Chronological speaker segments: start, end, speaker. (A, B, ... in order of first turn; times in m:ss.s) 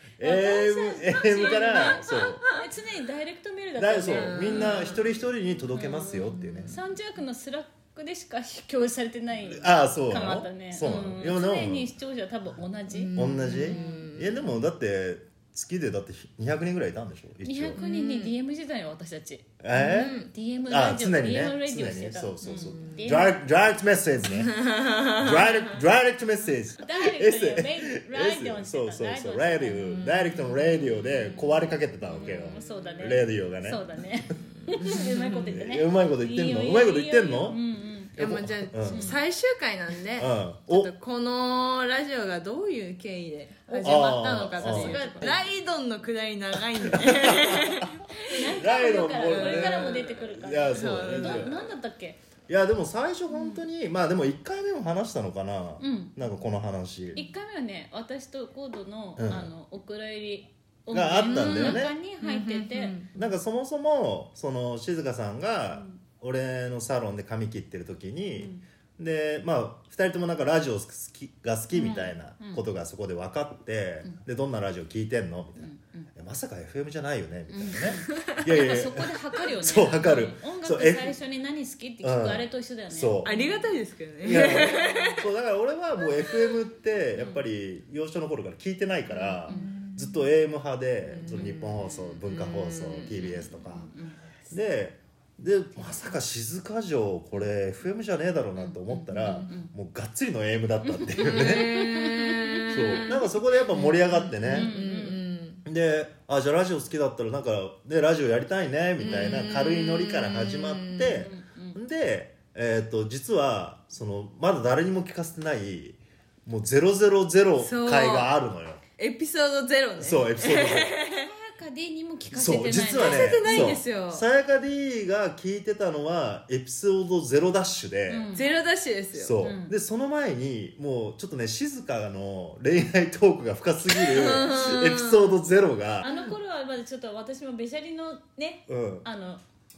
0:00.2-0:02.5 A
0:00.2-0:04.9 B
0:01.4-0:02.3 C
0:03.8-0:06.8 A
0:04.1-0:05.1 C
0:05.8-0:06.8 C
0:06.7-0:14.1 B
0:09.5-0:11.9 A
0:12.9-0:14.5 C
0:13.1-0:17.8 A
0:17.4-0:23.4 B
0:17.8-0:18.3 C
0:19.6-0:24.6 A
0:19.7-0:20.3 C
0:22.5-0:23.0 C
0:24.4-0:25.5 C
0:25.1-0:33.9 A
0:26.8-0:30.1 B
0:29.9-0:31.5 C
0:32.0-0:38.4 B
0:32.3-0:32.8 C
0:34.6-0:35.5 C
0:35.5-0:37.6 A
0:38.2-0:48.4 C
0:38.2-0:39.1 A
0:38.9-0:39.2 B
0:40.2-0:40.9 A
0:43.7-0:45.4 B
0:43.8-0:45.4 A
0:46.8-0:47.9 A
0:48.2-0:52.2 B
0:48.5-0:51.6 A
0:49.2-0:50.1 C
0:50.7-0:51.5 C
0:52.5-0:57.2 A
0:53.3-0:53.6 B
0:55.8-0:56.2 B
0:57.2-1:03.0 B
0:59.2-0:59.5 A
1:00.9-1:02.0 A
1:01.2-1:03.1 C
1:03.2-1:21.2 A
1:05.7-1:06.0 B
1:08.4-1:08.6 B
1:11.7-1:12.6 B
1:15.6-1:16.1 B
1:17.5-1:23.6 B
1:22.0-1:23.3 A
1:23.2-1:25.2 C
1:24.2-1:33.9 A
1:24.6-1:25.2 B
1:27.2-1:27.4 B
1:29.1-1:29.7 B
1:29.5-1:30.2 C
1:31.2-1:33.2 C
1:33.1-1:34.3 B
1:34.5-1:41.8 A
1:38.6-1:39.7 B
1:40.9-1:43.1 B
1:41.2-1:45.6 C
1:42.7-1:44.7 A
1:44.4-1:45.2 B
1:45.6-1:58.8 A
1:49.0-1:51.3 C
1:51.2-1:51.8 B
1:57.6-1:58.3 C
1:59.0-2:01.3 C
2:00.0-2:00.9 A
2:01.1-2:03.8 B
2:02.3-2:08.3 A
2:02.9-2:04.2 C
2:08.1-2:08.5 B
2:08.3-2:09.4 C
2:09.1-2:16.1 A
2:09.4-2:09.8 B
2:14.0-2:15.3 C
2:16.0-2:19.4 B
2:18.7-2:19.1 A